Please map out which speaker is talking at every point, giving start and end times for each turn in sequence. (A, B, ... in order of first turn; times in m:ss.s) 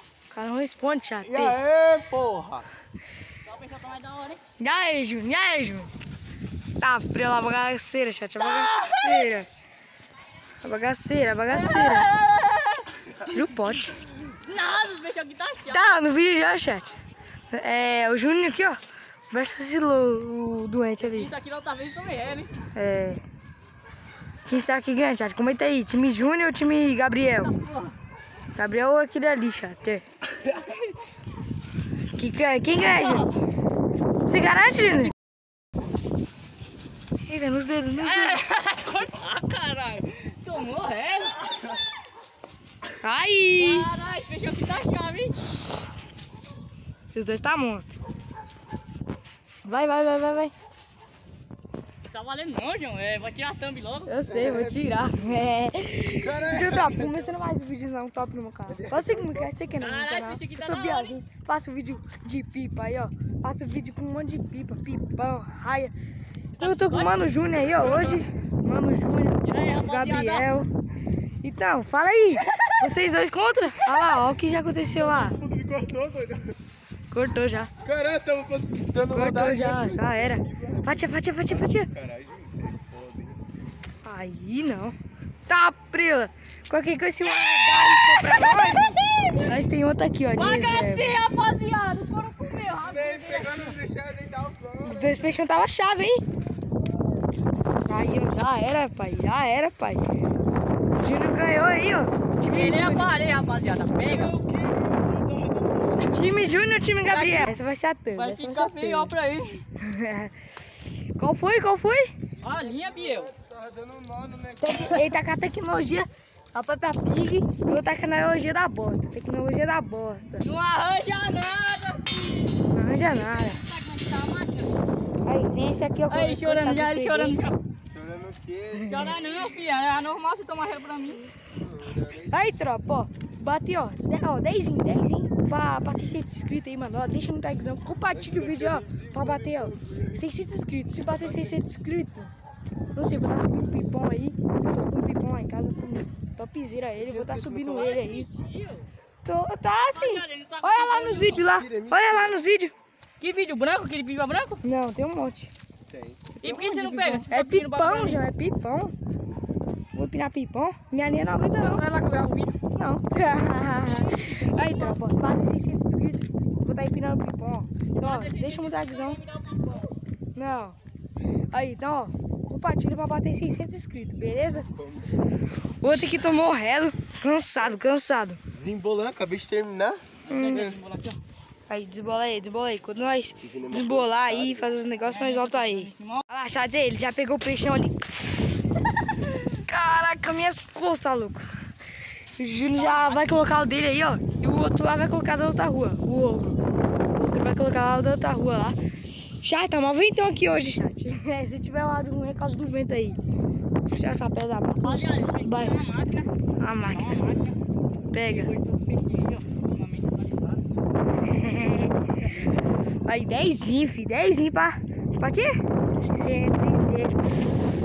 0:00.3-0:01.6 A
0:01.2-0:02.7 B
0:03.4-0:04.4 C
0:04.6-0:05.9 A
0:06.8-0:09.5 A
0:08.4-0:09.3 C
0:10.6-0:12.1 A
0:11.5-0:13.1 C
0:13.2-0:14.0 A
0:14.3-0:15.9 C
0:15.7-0:17.0 A
0:17.5-0:18.8 A
0:19.3-0:21.3 A
0:21.0-0:22.5 C
0:22.7-0:23.2 A
0:24.5-0:27.5 A
0:27.4-0:28.0 C
0:28.6-0:30.0 A
0:30.5-0:30.9 C
0:32.1-0:33.3 A
0:32.8-0:33.4 C
0:34.3-0:35.1 A
0:37.2-0:38.5 A
0:38.0-0:41.5 C
0:43.0-0:43.9 A
0:43.6-0:45.3 C
0:47.1-0:48.0 A
0:49.6-0:50.5 A
0:52.1-0:54.2 C
0:54.1-1:05.9 A
0:54.3-0:55.0 B
0:56.2-0:57.3 B
0:58.7-0:59.5 B
0:59.8-1:01.2 C
1:06.6-1:07.3 C
1:06.6-1:10.7 A
1:07.8-1:08.2 B
1:09.4-1:10.5 C
1:11.4-1:15.4 A
1:14.9-1:16.6 B
1:17.1-1:17.7 A
1:17.8-1:21.0 B
1:19.1-1:21.9 A
1:22.0-1:23.4 B
1:24.0-1:25.0 A
1:25.5-1:31.2 A
1:27.8-1:29.5 C
1:30.4-1:33.8 C
1:32.8-1:35.2 B
1:34.8-1:36.2 A
1:37.9-1:40.0 A
1:41.0-1:43.1 A
1:42.4-1:44.4 C
1:44.1-1:46.3 B
1:46.0-1:49.1 A
1:47.1-1:47.5 C
1:48.2-1:49.6 C
1:49.8-1:50.3 A
1:51.2-1:52.1 A
1:52.4-1:53.3 C
1:53.0-1:55.1 B
1:54.6-2:00.5 A
2:00.4-2:02.6 C
2:02.7-2:03.6 A
2:03.1-2:04.8 C
2:05.2-2:07.4 A
2:06.1-2:07.6 C
2:07.9-2:09.0 B
2:08.8-2:11.3 C
2:11.6-2:12.4 B
2:12.2-2:22.3 A
2:18.1-2:20.2 B
2:21.1-2:21.5 B
2:23.0-2:28.3 A
2:27.0-2:28.0 B
2:27.8-2:28.9 C
2:29.2-2:32.7 A
2:29.9-2:31.5 C
2:31.5-2:32.4 B
2:33.2-2:34.6 C
2:34.6-2:35.5 A
2:35.9-2:36.3 B
2:36.4-2:38.9 A
2:36.4-2:38.2 C
2:39.9-2:41.9 A
2:41.6-2:42.6 C
2:42.8-2:49.2 A
2:43.8-2:45.0 C
2:48.0-2:50.0 C
2:50.4-2:50.8 A
2:51.5-2:54.7 A
2:55.8-2:58.4 A
2:58.5-3:00.8 B
3:00.3-3:01.2 C
3:00.3-3:00.7 A
3:01.7-3:08.7 A
3:03.4-3:04.7 B
3:05.1-3:06.2 C
3:09.4-3:11.5 A
3:12.4-3:16.6 A
3:12.7-3:13.5 C
3:17.1-3:18.8 A
3:19.4-3:23.2 A
3:23.9-3:25.8 A
3:24.8-3:26.3 C
3:26.6-3:27.3 A
3:26.8-3:27.6 C
3:28.1-3:28.5 A
3:28.2-3:30.6 C
3:31.2-3:32.1 A
3:32.2-3:32.6 C
3:33.0-3:37.3 A